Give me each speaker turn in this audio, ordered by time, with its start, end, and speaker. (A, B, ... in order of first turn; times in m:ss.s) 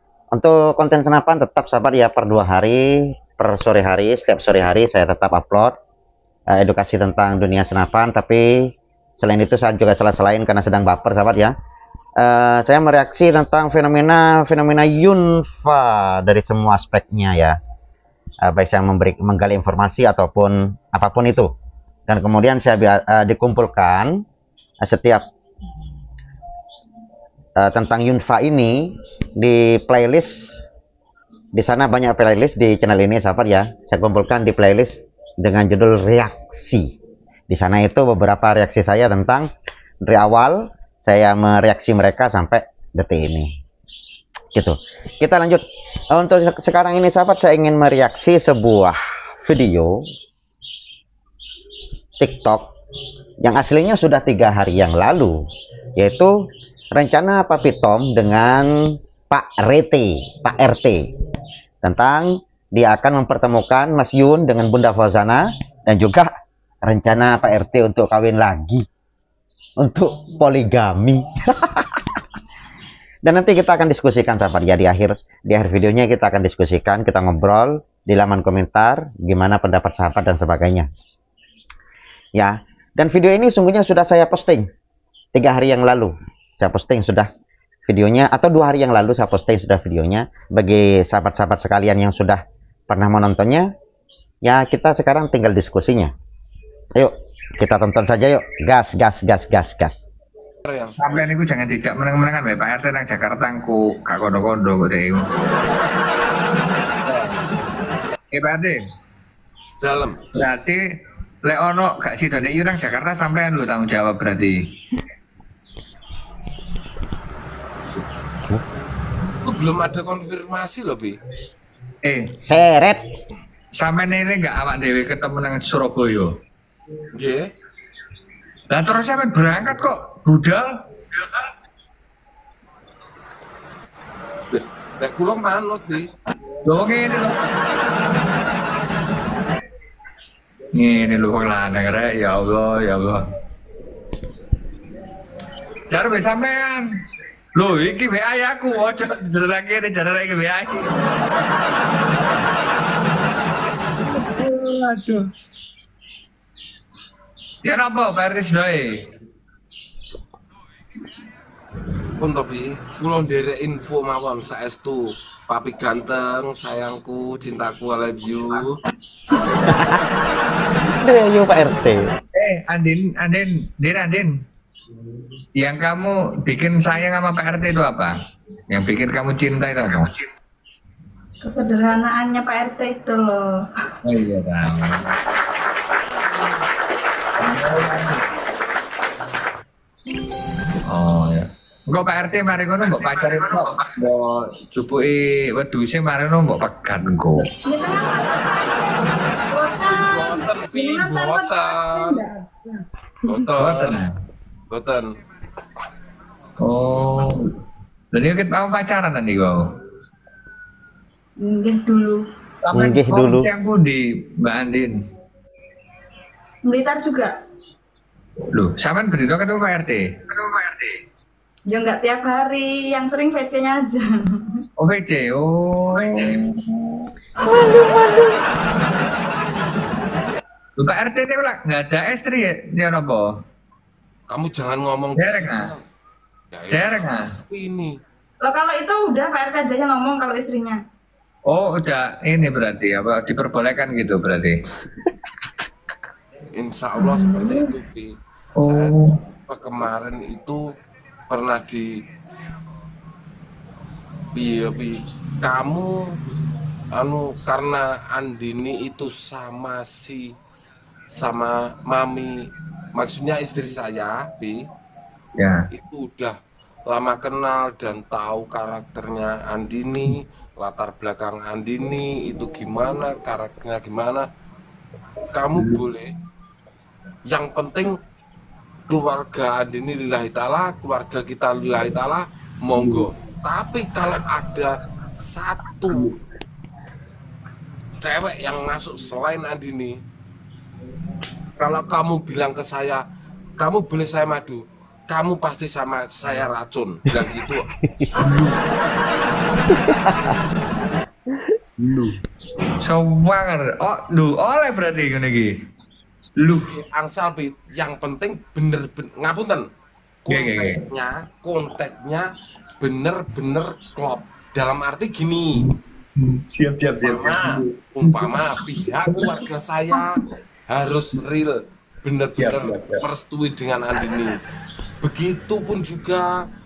0:00.3-0:05.7 A
0:06.5-0:11.5 A
0:12.2-0:17.6 A
0:18.4-0:21.5 A
0:22.1-0:24.2 A
0:24.8-0:25.2 A
0:27.6-0:30.6 A
0:31.6-0:36.9 A
0:37.5-0:39.5 A
0:40.0-0:43.5 A
0:44.5-0:50.0 A
0:52.2-0:52.7 A
0:53.4-0:55.4 A
0:56.0-0:56.3 A
0:56.9-0:58.7 A
0:59.3-1:01.0 A
1:01.8-1:06.3 A
1:06.8-1:08.8 A
1:09.8-1:12.0 A
1:13.2-1:20.9 A
1:22.4-1:24.7 A
1:25.3-1:27.3 A
1:27.9-1:33.7 A
1:34.4-1:36.1 A
1:37.0-1:39.9 A
1:40.6-1:41.0 B
1:41.0-1:45.2 C
1:47.1-1:47.4 C
1:48.3-1:48.8 C
1:49.8-1:50.2 B
1:50.3-1:50.8 C
1:51.4-1:54.6 C
1:59.4-2:01.2 B
2:02.0-2:02.3 C
2:02.4-2:03.0 A
2:03.7-2:06.3 C
2:07.1-2:07.4 B
2:08.7-2:11.2 C
2:14.5-2:16.1 B
2:16.6-2:17.4 C
2:20.7-2:23.2 C
2:25.9-2:26.9 C
2:27.5-2:30.9 C
2:34.0-2:35.3 C
2:37.6-2:39.1 C
2:42.2-2:48.8 B
2:49.7-2:50.0 A
2:50.9-2:52.0 A
2:52.3-2:54.3 C
2:55.6-2:58.1 C
2:58.7-3:00.3 C
3:01.4-3:03.6 D
3:04.0-3:05.0 C
3:07.4-3:08.2 C
3:10.8-3:17.5 C
3:17.5-3:22.8 D
3:19.8-3:22.2 B
3:23.3-3:24.0 B
3:23.6-3:24.1 C
3:24.7-3:25.1 B
3:26.6-3:27.4 C
3:28.1-3:29.7 C
3:31.4-3:32.2 D
3:32.6-3:35.0 C
3:32.7-3:33.5 A
3:36.7-3:37.3 D
3:38.5-3:41.0 C
3:41.7-3:44.4 D
3:44.8-3:46.4 C
3:47.5-3:48.4 A
3:50.8-3:53.3 C
3:54.3-3:55.8 B
3:55.2-3:55.7 C
3:56.5-3:57.9 B
3:56.7-3:57.3 C
3:58.4-4:00.8 D
4:01.5-4:04.6 C
4:06.6-4:08.9 B
4:07.0-4:07.5 D
4:08.6-4:09.1 C
4:09.5-4:10.6 B
4:11.3-4:11.9 B
4:14.3-4:15.9 B
4:17.0-4:20.2 B
4:21.1-4:22.3 B
4:23.0-4:24.6 B
4:25.4-4:25.7 C
4:25.7-4:26.4 B
4:26.9-4:34.2 B
4:35.3-4:36.1 B
4:35.5-4:35.8 C
4:37.3-4:37.9 B
4:38.9-4:46.1 B
4:42.8-4:43.0 C
4:45.9-4:46.1 C
4:48.0-4:50.0 B
4:51.6-4:53.0 B
4:53.6-4:57.7 B
4:57.8-4:58.1 A
4:58.2-4:58.6 C
4:59.8-5:00.4 A
5:01.8-5:02.1 C
5:02.8-5:05.5 C
5:06.4-5:06.7 C
5:06.5-5:09.6 B
5:10.2-5:12.3 B
5:10.3-5:10.8 C
5:12.8-5:15.6 B
5:15.6-5:18.4 C
5:17.0-5:20.1 B
5:19.1-5:19.4 C
5:20.7-5:24.4 B
5:22.4-5:23.0 C
5:25.0-5:26.3 B